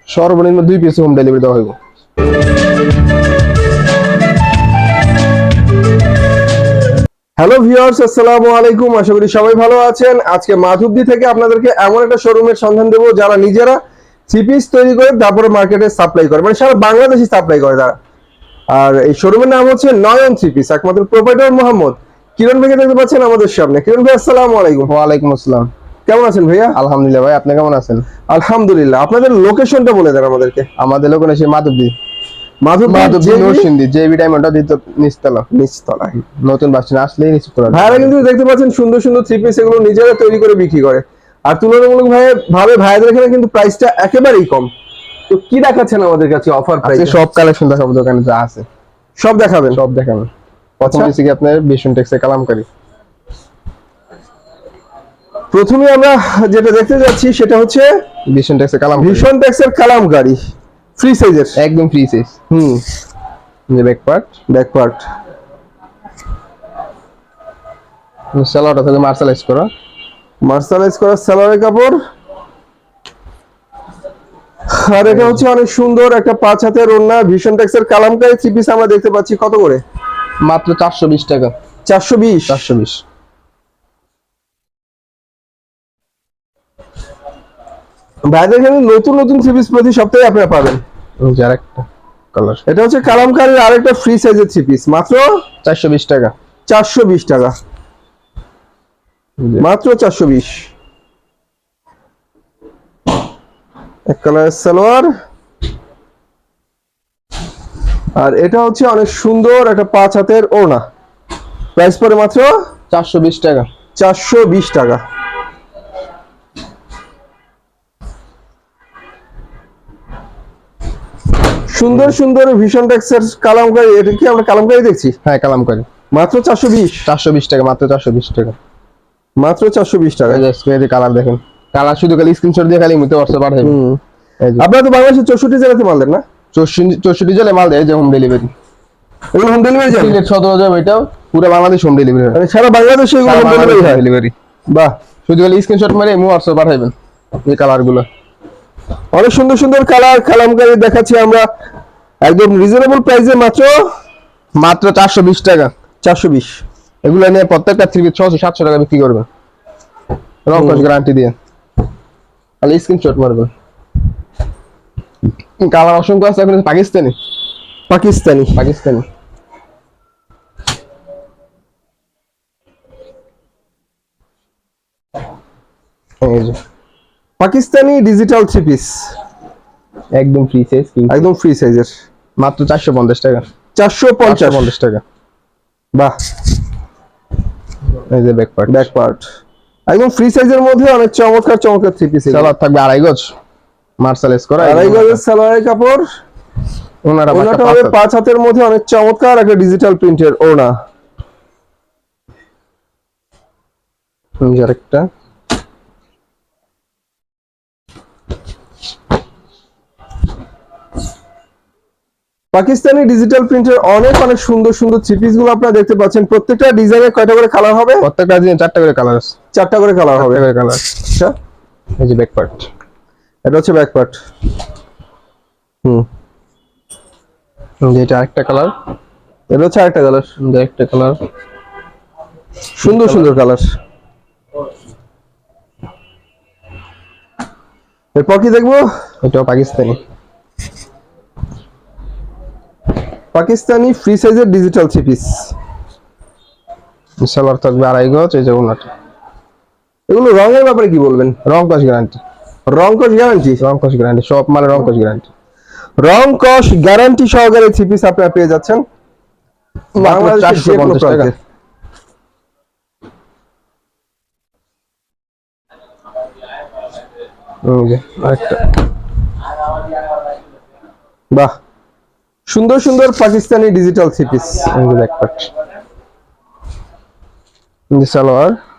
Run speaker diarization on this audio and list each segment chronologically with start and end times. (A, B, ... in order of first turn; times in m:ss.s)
0:00.1-0:01.8 A
0:07.4-0:13.8 B
0:14.3-0:18.0 B
0:18.7-0:24.9 B
0:24.9-0:25.7 A
0:26.1-0:26.8 B
0:26.7-0:28.1 A
0:28.3-0:30.7 B
0:30.8-0:32.0 A
0:32.6-0:33.7 B
0:32.9-0:35.5 A
0:35.5-0:36.2 B
0:36.2-0:38.2 A
0:37.7-0:44.7 B
0:45.3-0:47.2 B
0:46.8-0:48.7 A
0:49.2-0:49.8 B
0:49.7-0:50.3 A
0:50.8-0:52.7 A
0:50.8-0:51.1 B
0:55.5-0:57.9 B
0:58.3-0:59.3 A
0:59.0-1:00.4 B
1:01.0-1:01.6 B
1:01.6-1:02.4 A
1:02.5-1:02.8 B
1:03.7-1:04.3 A
1:04.5-1:05.0 B
1:08.4-1:09.7 A
1:10.4-1:12.0 B
1:14.7-1:19.8 B
1:15.0-1:15.4 A
1:20.4-1:21.6 A
1:21.9-1:22.6 B
1:22.5-1:23.0 A
1:28.3-1:30.8 B
1:31.2-1:32.6 A
1:32.7-1:35.4 B
1:35.6-1:36.3 A
1:36.7-1:37.6 B
1:39.4-1:39.7 A
1:39.6-1:40.7 B
1:44.1-1:45.1 B
1:48.2-1:50.8 B
1:51.8-1:52.5 B
1:52.9-1:53.7 A
1:54.0-1:55.0 B
2:01.7-2:05.2 B
2:05.2-2:05.9 A
2:06.1-2:07.1 B
2:07.1-2:08.6 A
2:09.4-2:10.4 B
2:10.3-2:13.8 A
2:13.6-2:14.0 B
2:14.4-2:14.7 A
2:14.6-2:16.2 B
2:16.5-2:18.5 A
2:19.3-2:20.2 B
2:19.9-2:22.4 A
2:22.3-2:24.0 B
2:23.2-2:24.3 A
2:24.7-2:25.0 B
2:25.3-2:28.1 A
2:29.1-2:31.5 B
2:32.2-2:33.9 B
2:34.6-2:35.7 A
2:36.0-2:36.6 B
2:37.0-2:39.3 A
2:40.5-2:41.4 A
2:40.5-2:40.9 B
2:42.6-2:43.5 A
2:45.6-2:47.2 A
2:47.9-2:48.6 B
2:48.6-2:49.1 A
2:56.2-2:56.6 A
2:57.4-2:59.1 B
3:00.1-3:01.3 A
3:01.1-3:01.9 B
3:02.4-3:03.4 A
3:03.8-3:04.7 B
3:04.2-3:05.0 A
3:08.1-3:08.9 A
3:08.7-3:09.2 B
3:09.9-3:12.5 B
3:12.3-3:13.4 A
3:14.0-3:15.2 A
3:14.6-3:16.1 B
3:17.0-3:18.0 A
3:17.3-3:20.7 B
3:24.4-3:25.1 A
3:32.5-3:38.1 B
3:38.0-3:39.4 A
3:39.5-3:40.5 B
3:40.2-3:41.0 A
3:41.0-3:41.4 B
3:42.0-3:42.7 A
3:43.5-3:44.2 B
3:47.8-3:48.7 A
3:49.5-3:50.4 B
3:50.4-3:51.2 A
3:52.8-3:53.7 B
3:52.9-3:53.3 A
3:58.2-3:58.9 B
3:59.2-4:00.0 A
4:03.3-4:05.5 B
4:07.2-4:08.9 A
4:10.1-4:11.4 B
4:11.4-4:12.2 A
4:12.7-4:13.6 B
4:13.6-4:15.3 A
4:16.0-4:18.8 B
4:20.0-4:21.3 A
4:20.0-4:21.4 B
4:27.6-4:28.6 A
4:32.5-4:34.7 B
4:34.7-4:35.5 A
4:37.9-4:38.6 A